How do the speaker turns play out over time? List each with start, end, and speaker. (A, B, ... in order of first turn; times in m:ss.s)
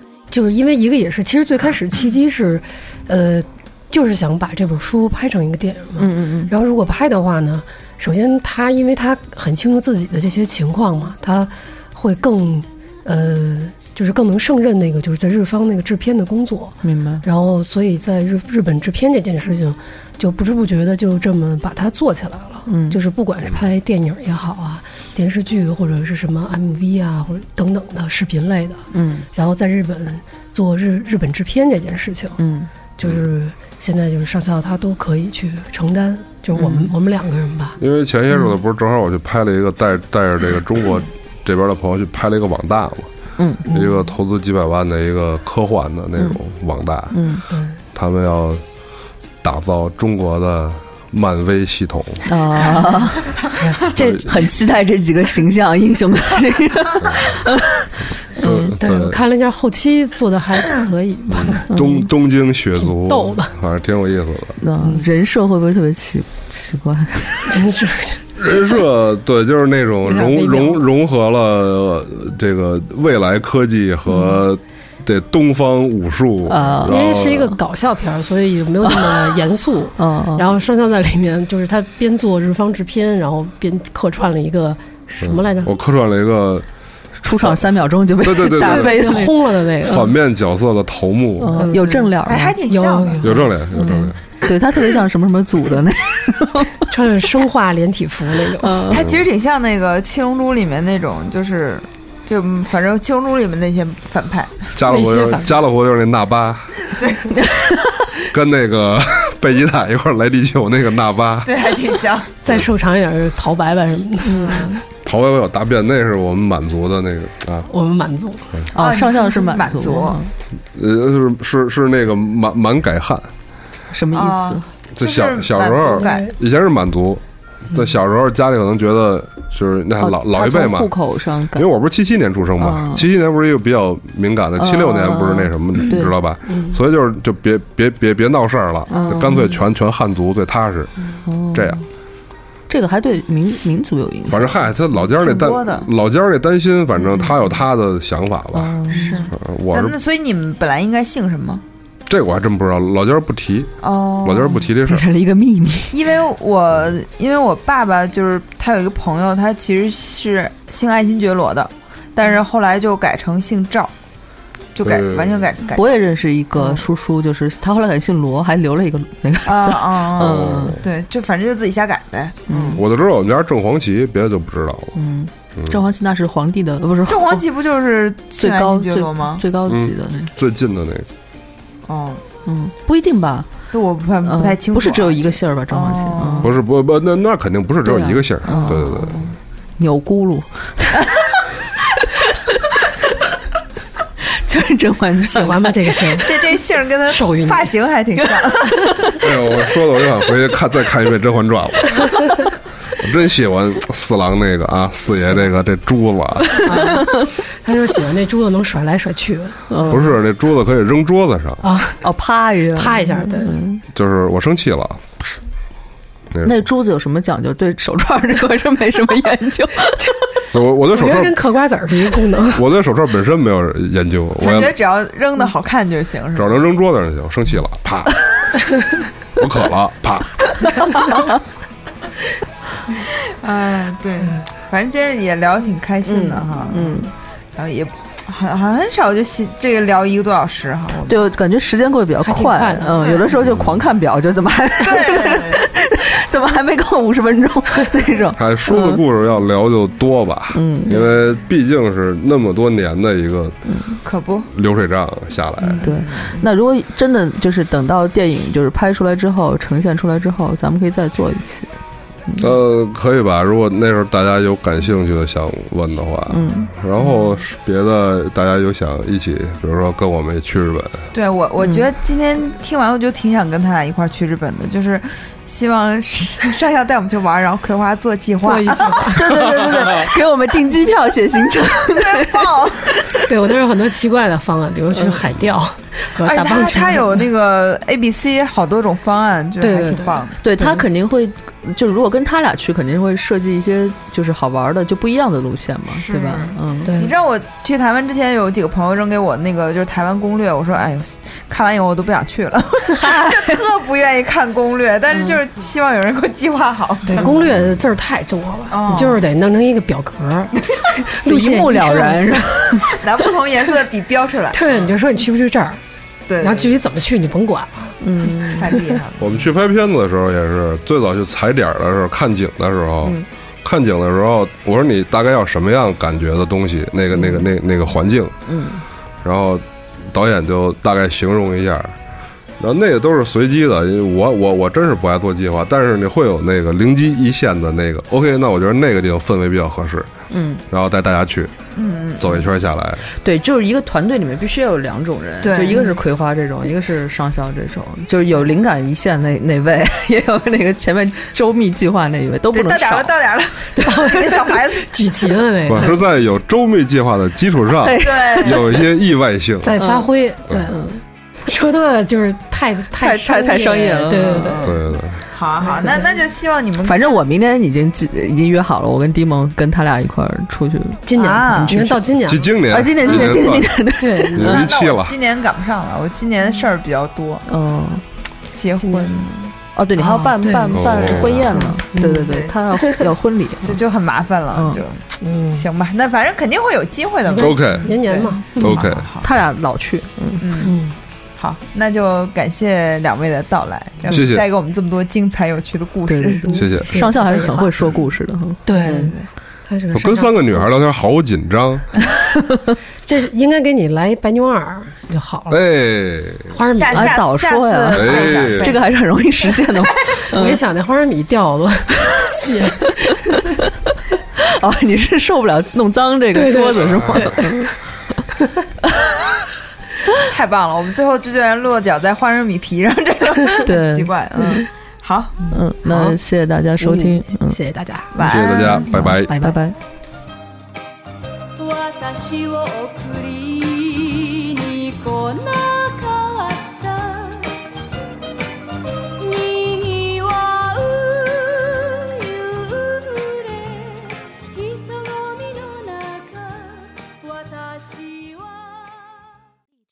0:00.3-0:32.4 A
0:06.0-0:06.5 B
0:16.8-0:17.2 B
0:22.7-0:23.0 B
0:28.9-0:29.3 B
0:32.4-0:32.7 B
0:33.0-0:37.8 A
0:36.5-0:36.9 B
0:37.8-0:43.1 C
0:43.4-0:43.6 B
0:43.7-0:44.1 A
0:43.7-0:47.2 C
0:47.1-0:47.4 B
0:47.5-0:47.8 A
0:47.9-0:48.6 C
0:49.4-0:52.3 C
0:52.3-0:53.3 B
0:53.5-0:54.2 A
0:53.9-0:57.7 B
0:53.9-0:54.2 C
0:57.0-0:57.4 C
0:58.4-0:59.2 C
0:58.4-0:58.7 B
0:58.5-1:01.7 A
1:01.3-1:04.6 C
1:01.7-1:02.1 B
1:02.8-1:03.5 A
1:04.6-1:07.6 B
1:04.8-1:05.1 A
1:07.5-1:08.2 A
1:08.4-1:17.6 C
1:10.0-1:10.8 A
1:16.5-1:17.0 B
1:16.8-1:25.7 A
1:18.9-1:19.3 B
1:20.0-1:20.4 B
1:25.2-1:26.7 C
1:27.2-1:30.1 B
1:27.3-1:27.6 C
1:28.2-1:29.2 C
1:28.6-1:30.1 A
1:29.8-1:31.7 C
1:31.4-1:32.6 B
1:31.5-1:34.1 A
1:32.3-1:33.4 D
1:33.2-1:34.2 C
1:33.8-1:36.8 B
1:36.9-1:38.8 A
1:38.6-1:39.0 B
1:38.9-1:44.7 D
1:38.9-1:39.2 C
1:44.8-1:46.8 C
1:44.8-1:45.6 A
1:46.9-1:47.4 D
1:47.3-1:48.0 B
1:48.3-1:51.5 C
1:51.4-1:52.4 D
1:52.4-1:54.8 A
1:54.2-1:54.8 B
1:55.0-1:57.7 C
1:57.7-1:58.5 A
1:58.7-2:00.3 B
1:58.8-2:00.2 D
2:00.7-2:03.3 C
2:03.9-2:04.7 B
2:04.1-2:06.3 D
2:05.0-2:10.9 C
2:06.0-2:06.3 A
2:10.0-2:11.7 B
2:11.6-2:20.9 C
2:12.6-2:13.1 B
2:14.6-2:16.2 B
2:18.9-2:19.6 B
2:19.0-2:19.2 D
2:21.3-2:21.8 B
2:21.5-2:21.8 C
2:22.7-2:24.7 B
2:24.3-2:30.0 C
2:25.2-2:25.9 D
2:28.5-2:29.2 B
2:28.9-2:31.6 D
2:32.1-2:35.1 C
2:33.8-2:34.7 D
2:34.8-2:36.0 B
2:35.9-2:43.9 D
2:44.8-2:45.9 D
2:44.8-2:45.4 C
2:45.8-2:50.8 B
2:49.4-2:52.8 D
2:50.2-2:50.8 C
2:52.5-2:52.8 B
2:52.7-2:54.9 C
2:55.0-2:57.4 B
2:57.1-2:59.4 D
2:58.4-3:00.3 B
2:59.7-3:01.1 C
3:01.9-3:02.2 D
3:02.4-3:03.5 B
3:03.7-3:06.5 D
3:04.3-3:06.5 B
3:06.4-3:09.2 C
3:07.8-3:11.3 B
3:12.2-3:13.1 B
3:14.2-3:16.2 B
3:15.3-3:16.4 A
3:16.2-3:18.8 D
3:17.1-3:17.7 A
3:18.2-3:19.2 B
3:19.2-3:22.2 C
3:23.0-3:26.7 C
3:26.6-3:30.0 A
3:29.7-3:30.1 B
3:29.9-3:31.7 C
3:31.6-3:32.0 A
3:32.0-3:33.8 B
3:32.8-3:33.6 A
3:33.9-3:35.0 C
3:36.3-3:36.6 C
3:36.4-3:40.2 B
3:40.5-3:41.4 C
3:40.9-3:42.6 A
3:42.5-3:44.8 C
3:44.4-3:46.6 D
3:46.4-3:48.2 C
3:49.4-3:50.9 C
3:50.6-3:51.3 B
3:53.0-3:57.0 D
3:56.0-3:57.1 B
3:57.6-4:01.2 D
4:01.1-4:09.0 B
4:02.2-4:03.1 A
4:03.0-4:03.3 D
4:03.4-4:03.9 C
4:04.8-4:05.6 D
4:08.4-4:13.6 C
4:10.5-4:11.0 B
4:13.7-4:14.0 B
4:14.0-4:14.5 D
4:14.5-4:15.8 C
4:15.6-4:16.4 D
4:15.8-4:21.7 B
4:22.4-4:31.1 C
4:26.3-4:26.7 B
4:31.1-4:40.2 D
4:38.4-4:39.4 A
4:39.1-4:43.0 B
4:41.9-4:42.9 D
4:43.2-4:47.2 A
4:45.0-4:45.2 B
4:46.2-4:50.4 D
4:49.6-4:50.8 A
4:50.4-4:56.9 B
4:56.0-5:07.5 D
4:56.8-4:57.1 A
5:02.9-5:03.6 B
5:07.1-5:12.5 A
5:08.7-5:09.2 D
5:11.2-5:13.0 B
5:12.8-5:14.9 D
5:14.5-5:15.8 A
5:16.3-5:16.8 D
5:16.4-5:18.0 A
5:18.0-5:18.7 B
5:18.4-5:19.5 D
5:19.2-5:28.4 C
5:27.2-5:27.4 B
5:28.5-5:28.8 B
5:29.2-5:32.0 C
5:32.6-5:40.1 C
5:40.3-5:40.6 B
5:40.7-5:41.5 C
5:41.8-5:42.5 D
5:42.2-5:43.1 C
5:43.2-5:53.1 B
5:45.4-5:46.0 D
5:52.5-5:55.2 D
5:53.8-5:56.0 A
5:55.7-5:59.8 C
5:57.8-5:58.7 B
5:58.0-5:58.8 D
5:59.6-6:04.8 A
5:59.8-6:00.1 B
6:03.0-6:04.7 B
6:04.6-6:05.2 C
6:05.3-6:07.2 D
6:05.6-6:06.2 A
6:06.8-6:14.6 B
6:11.0-6:12.5 A
6:11.2-6:11.9 D
6:12.2-6:13.8 C
6:14.0-6:14.6 A
6:14.3-6:15.1 C
6:14.4-6:17.4 D
6:17.5-6:18.0 B
6:18.5-6:19.5 D
6:18.8-6:19.1 A
6:19.7-6:23.8 B
6:20.0-6:22.3 A
6:20.7-6:21.6 C
6:22.1-6:23.0 D
6:23.6-6:29.3 D
6:24.5-6:24.8 B
6:25.2-6:25.7 A
6:27.3-6:28.8 A
6:27.4-6:28.0 C
6:28.6-6:29.1 C
6:29.2-6:30.6 B
6:30.4-6:30.8 D
6:30.6-6:31.0 A
6:31.4-6:36.5 D
6:34.1-6:34.5 C
6:36.1-6:38.7 B
6:36.5-6:38.0 A
6:36.6-6:37.0 C
6:38.7-6:39.2 A
6:38.8-6:39.3 D
6:39.7-6:40.7 A
6:39.9-6:41.9 C
6:43.0-6:45.6 A
6:45.5-6:46.5 C
6:46.5-6:47.2 A
6:46.7-6:48.9 D
6:46.9-6:50.6 B
6:47.9-6:48.7 C
6:50.3-6:53.5 A
6:53.3-6:53.7 B
6:54.4-6:57.7 B
6:56.3-6:57.7 A
6:56.8-6:57.4 C
7:00.3-7:05.4 D
7:03.6-7:04.7 B
7:05.4-7:06.2 A
7:05.5-7:07.6 B
7:06.8-7:08.4 A
7:08.1-7:08.9 D
7:08.2-7:09.4 C
7:08.9-7:09.8 B
7:09.0-7:09.6 A
7:11.6-7:17.5 E
7:19.2-7:29.1 E